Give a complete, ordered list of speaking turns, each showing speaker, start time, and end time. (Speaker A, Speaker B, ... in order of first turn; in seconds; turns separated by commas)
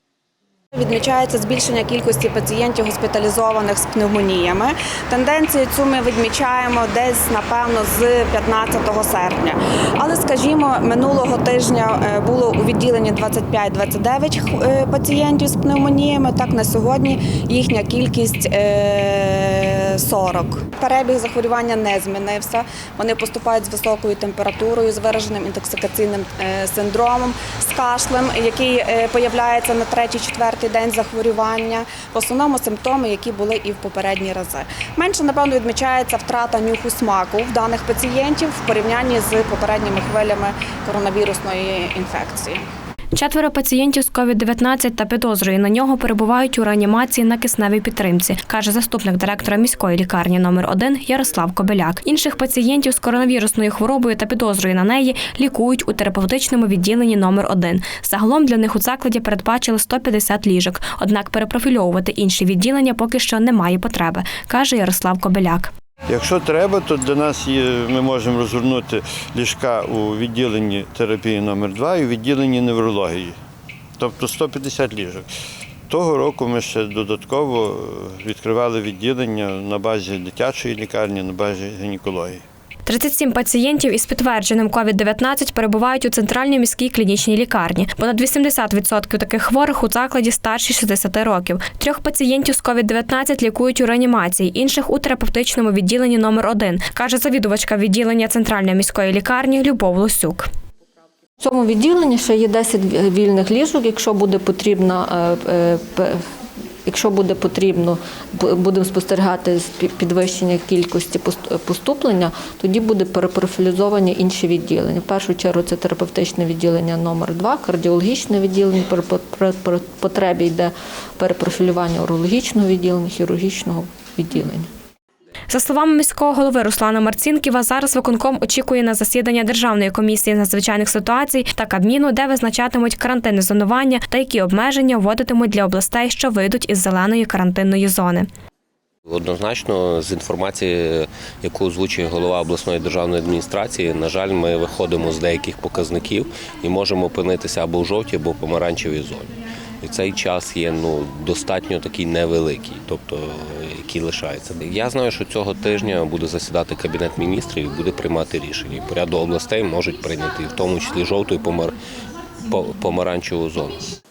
Speaker A: 0.7-42.6, Speaker B: 43.1-65.7, Speaker C: 66.1-73.3, Speaker C: 74.0-75.3, Speaker C: 75.9-82.4, Speaker B: 82.8-100.5, Speaker D: 101.4-106.2, Speaker D: 106.8-124.7, Speaker B: 125.5-138.3, Speaker E: 139.1-161.7, Speaker E: 162.4-163.8